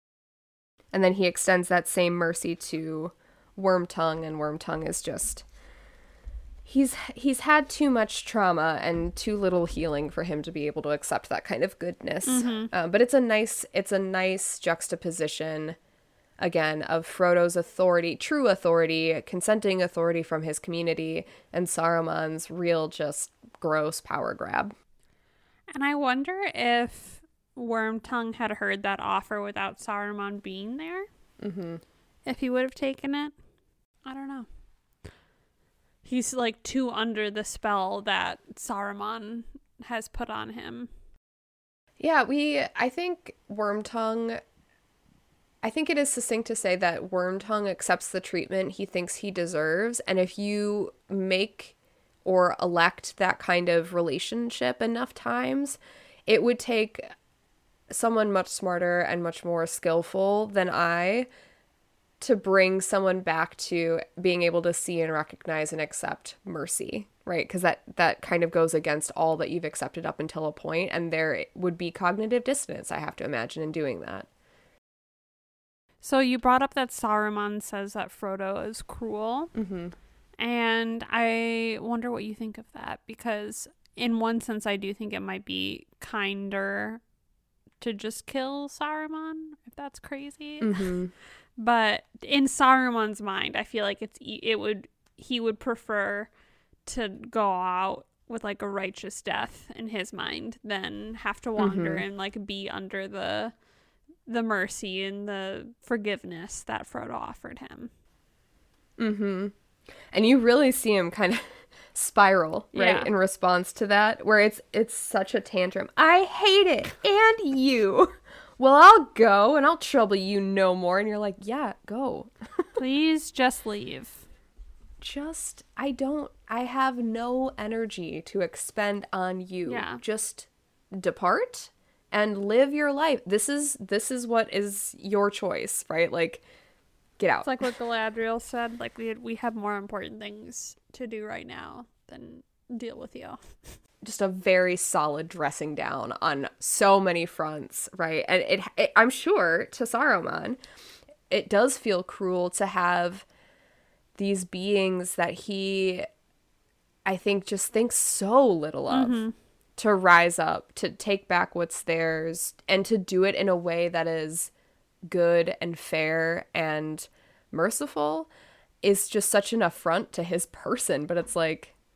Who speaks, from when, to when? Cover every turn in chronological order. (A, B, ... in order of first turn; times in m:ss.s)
0:00.9-0:05.4 A
0:06.6-0:15.8 A
0:12.2-0:12.7 B
0:16.4-0:24.7 A
0:25.7-0:31.1 B
0:31.4-0:31.8 A
0:32.2-0:33.3 B
0:34.0-0:34.5 B
0:36.0-0:40.9 B
0:42.0-0:44.4 A
0:45.6-0:57.1 A
0:57.9-1:01.3 A
1:02.2-1:14.3 A
1:16.0-1:19.5 B
1:19.5-1:19.9 A
1:20.4-1:27.0 B
1:27.8-1:31.0 B
1:30.6-1:31.1 A
1:31.6-1:36.3 B
1:36.8-1:43.5 B
1:41.6-1:42.0 A
1:44.3-1:47.9 B
1:49.0-1:49.5 A
1:50.1-2:02.3 A
1:52.7-1:53.1 B
2:02.8-2:04.2 B
2:05.0-2:16.4 A
2:09.6-2:10.0 B
2:17.2-2:17.7 A
2:17.4-2:23.6 B
2:24.0-2:30.6 A
2:31.3-2:33.2 A
2:34.2-2:36.0 A
2:37.0-2:39.2 A
2:38.9-2:39.3 B
2:39.8-2:44.5 A
2:45.1-2:48.3 A
2:48.8-2:51.7 A